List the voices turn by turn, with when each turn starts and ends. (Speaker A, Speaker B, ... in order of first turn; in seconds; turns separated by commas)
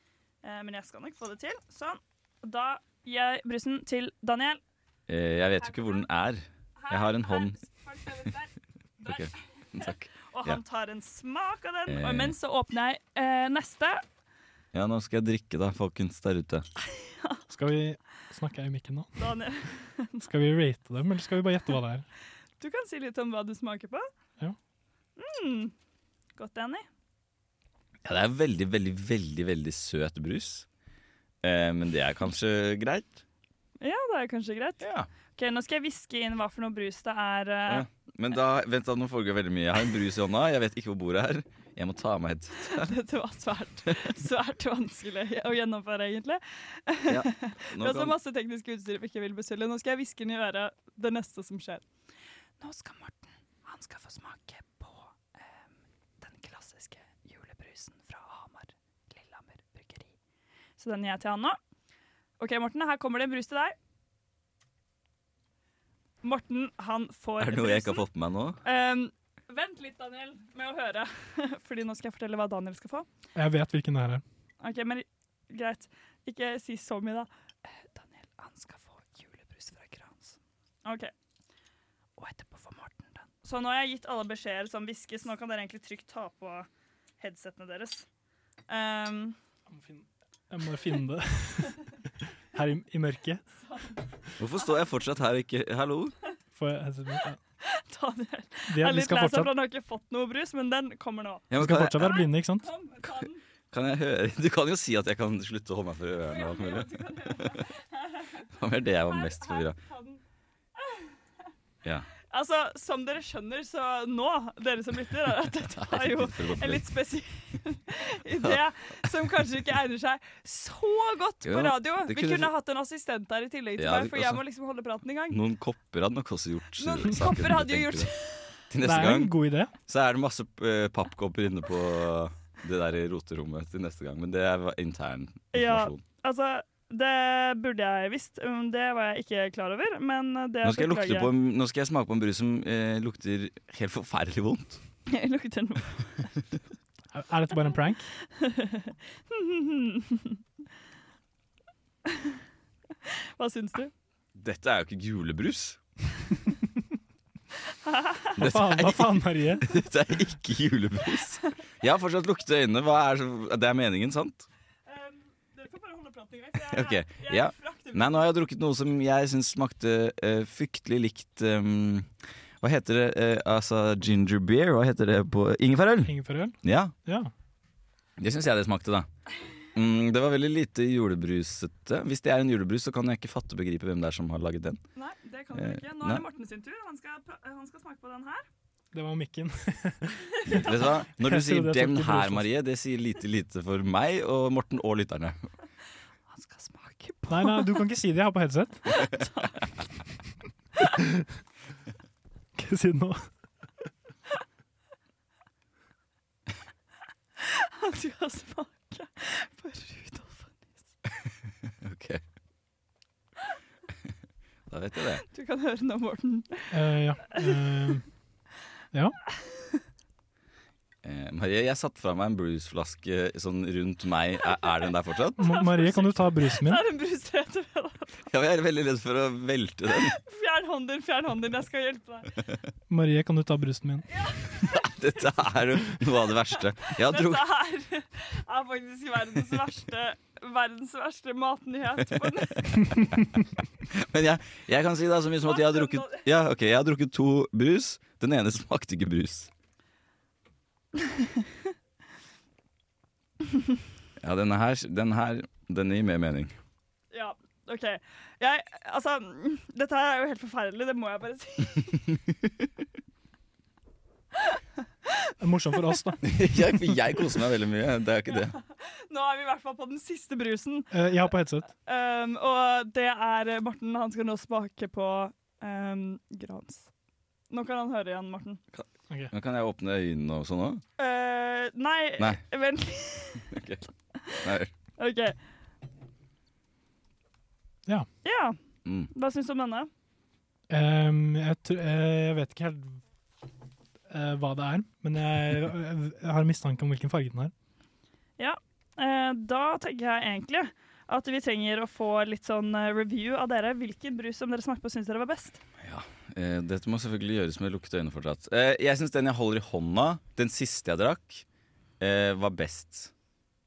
Speaker A: 0.4-4.6, Speaker B: 5.1-7.6, Speaker A: 5.6-6.1, Speaker A: 6.8-8.5, Speaker A: 9.0-14.0, Speaker B: 9.1-10.6, Speaker B: 11.9-12.4, Speaker B: 14.7-16.7, Speaker A: 16.9-17.4, Speaker C: 17.5-19.2, Speaker A: 19.2-20.3, Speaker C: 20.2-22.1, Speaker A: 22.6-24.1, Speaker A: 25.2-25.7, Speaker A: 26.4-26.9, Speaker B: 28.1-30.7, Speaker B: 31.4-33.2, Speaker A: 33.8-34.8, Speaker B: 34.8-35.1, Speaker A: 35.4-37.9, Speaker B: 37.7-42.9, Speaker A: 42.6-51.8, Speaker B: 47.1-48.1, Speaker A: 52.6-55.5, Speaker A: 56.2-60.1, Speaker A: 60.8-61.6, Speaker A: 62.4-63.8, Speaker A: 66.2-68.1, Speaker B: 67.4-68.6, Speaker A: 68.6-73.1, Speaker C: 73.4-74.2, Speaker A: 74.6-81.1, Speaker A: 82.2-86.7, Speaker A: 87.2-88.1, Speaker A: 88.7-89.4, Speaker C: 89.7-91.8, Speaker C: 92.5-93.4, Speaker A: 93.6-94.0, Speaker B: 94.4-96.2, Speaker C: 96.5-97.4, Speaker A: 97.6-101.5, Speaker C: 98.7-99.5, Speaker B: 101.5-102.2, Speaker C: 101.6-102.7, Speaker A: 102.0-103.4, Speaker B: 103.7-107.6, Speaker A: 106.3-108.5, Speaker B: 108.6-109.8, Speaker A: 109.1-110.2, Speaker A: 110.8-111.1, Speaker A: 112.3-125.4, Speaker B: 115.6-116.9, Speaker B: 121.5-122.5, Speaker B: 123.8-124.4, Speaker B: 125.3-128.1, Speaker A: 126.8-128.6, Speaker B: 128.7-136.0, Speaker C: 128.8-129.7, Speaker A: 135.5-141.3, Speaker B: 140.6-144.8, Speaker A: 145.1-146.3, Speaker C: 147.1-148.1, Speaker A: 148.3-150.4, Speaker A: 153.1-153.9, Speaker B: 154.4-155.8, Speaker A: 157.8-158.4, Speaker B: 158.4-164.5, Speaker C: 158.4-159.7, Speaker A: 164.9-168.3, Speaker B: 166.7-172.1, Speaker B: 172.6-176.9, Speaker C: 176.0-177.3, Speaker B: 178.2-179.1, Speaker B: 179.7-184.8, Speaker A: 185.0-188.5, Speaker B: 185.5-186.2, Speaker C: 188.9-192.5, Speaker B: 190.5-195.5, Speaker A: 196.3-197.8, Speaker C: 197.3-198.9, Speaker A: 198.9-199.7, Speaker C: 201.0-201.3, Speaker C: 202.6-203.3, Speaker A: 207.4-210.8, Speaker B: 211.8-212.2, Speaker B: 214.7-215.2, Speaker A: 215.3-216.8, Speaker C: 216.7-218.1, Speaker A: 217.3-217.8, Speaker B: 221.0-225.4, Speaker C: 225.4-226.8, Speaker A: 225.4-228.2, Speaker B: 228.3-230.2, Speaker A: 230.0-232.3, Speaker C: 232.9-234.1, Speaker A: 234.1-235.2, Speaker B: 234.6-237.5, Speaker A: 236.9-243.0, Speaker B: 244.0-249.5, Speaker A: 245.4-246.2, Speaker A: 251.0-251.5, Speaker B: 254.2-256.5, Speaker A: 257.1-262.0, Speaker A: 264.4-265.3, Speaker C: 265.4-266.2, Speaker B: 266.2-268.6, Speaker A: 268.7-271.0, Speaker C: 270.9-271.7, Speaker A: 271.8-276.9, Speaker A: 277.5-278.6, Speaker B: 278.7-280.8, Speaker A: 281.0-283.4, Speaker B: 283.5-283.8, Speaker B: 284.4-284.7, Speaker A: 285.0-285.4, Speaker A: 288.2-288.6, Speaker B: 288.9-289.1, Speaker A: 289.1-289.9, Speaker C: 290.7-293.0, Speaker C: 294.1-297.5, Speaker A: 298.4-305.6, Speaker B: 305.8-311.4, Speaker B: 312.0-313.1